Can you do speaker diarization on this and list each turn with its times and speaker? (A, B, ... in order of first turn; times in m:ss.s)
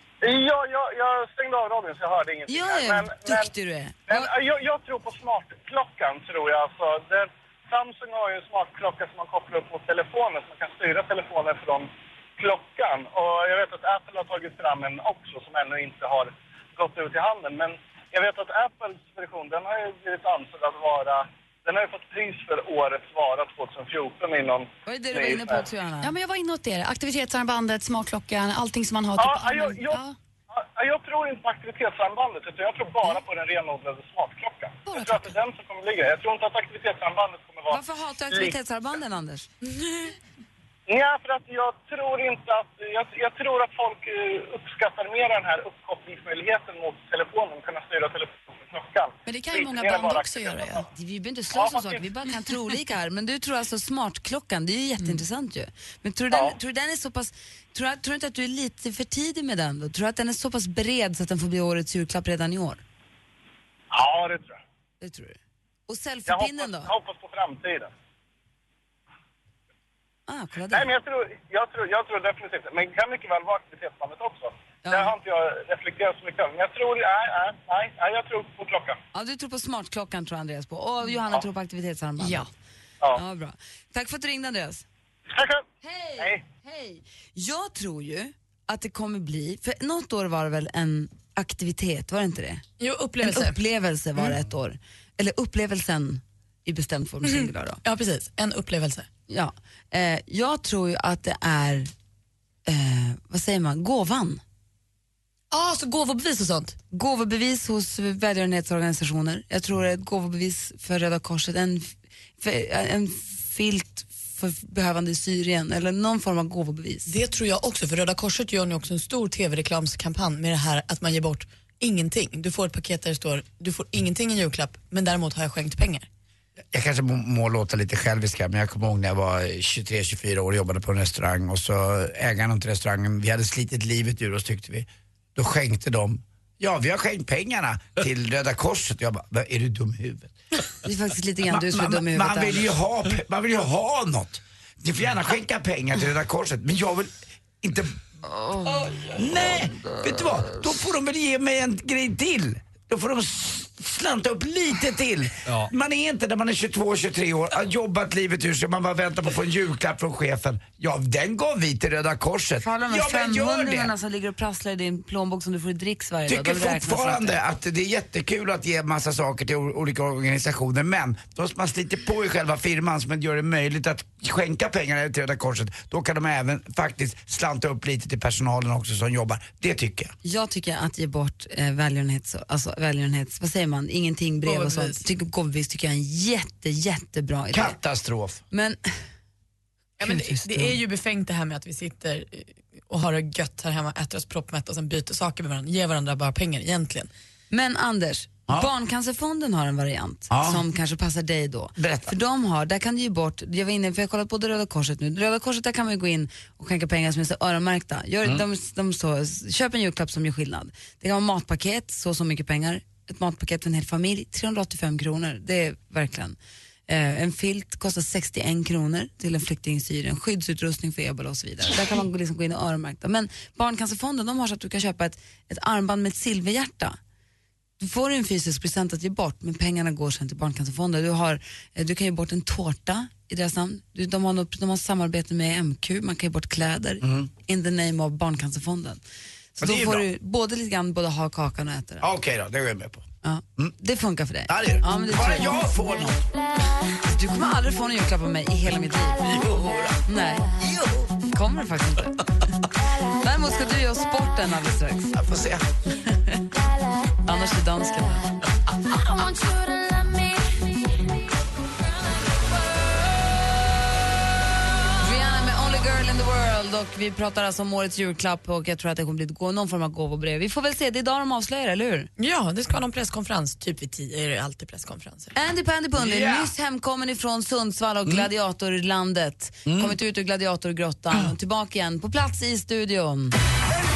0:00.2-0:03.5 A
0:02.5-0:04.3 B
0:04.1-0:25.6 A
0:24.8-0:26.1 B
0:26.0-0:30.1 C
0:29.2-0:38.5 A
0:34.9-0:35.2 C
0:37.7-0:39.5 B
0:40.9-0:50.8 A
0:49.2-0:50.8 C
0:50.9-1:02.8 B
0:51.5-0:52.0 A
1:03.9-1:04.6 A
1:05.0-1:05.4 B
1:05.9-1:06.9 B
1:06.3-1:07.9 A
1:10.3-1:10.9 B
1:10.7-1:19.0 A
1:14.8-1:15.1 B
1:19.1-1:22.5 B
1:22.2-1:22.5 C
1:23.1-1:24.8 B
1:25.3-1:25.6 A
1:25.8-1:32.6 B
1:32.8-1:33.6 D
1:33.2-1:37.8 B
1:37.2-1:39.1 D
1:39.3-1:41.9 B
1:42.6-1:44.4 B
1:45.5-1:46.8 D
1:46.9-1:57.1 B
1:57.1-2:06.1 D
2:06.7-2:20.3 E
2:20.8-2:22.7 B
2:21.5-2:28.0 E
2:28.2-2:29.0 B
2:29.1-2:43.9 E
2:42.6-2:47.4 B
2:46.3-3:00.1 E
3:00.2-3:07.8 B
3:04.4-3:05.0 D
3:07.5-3:08.4 E
3:08.5-3:08.8 B
3:10.0-3:17.1 D
3:10.0-3:10.8 B
3:17.5-3:36.4 B
3:20.3-3:20.6 E
3:21.8-3:22.1 E
3:36.9-3:47.0 B
3:47.8-3:59.0 B
3:57.0-3:57.3 E
3:59.6-4:00.1 E
3:59.6-4:02.0 B
4:02.0-4:03.0 E
4:03.2-4:05.6 B
4:04.5-4:06.2 E
4:07.0-4:09.3 B
4:09.2-4:10.0 E
4:10.0-4:10.5 B
4:10.6-4:11.1 E
4:11.3-4:12.2 B
4:13.2-4:15.2 B
4:15.1-4:15.7 E
4:17.2-4:18.3 B
4:25.0-4:32.1 B
4:32.2-4:35.3 D
4:35.3-4:43.4 B
4:36.0-4:36.5 E
4:39.6-4:39.9 E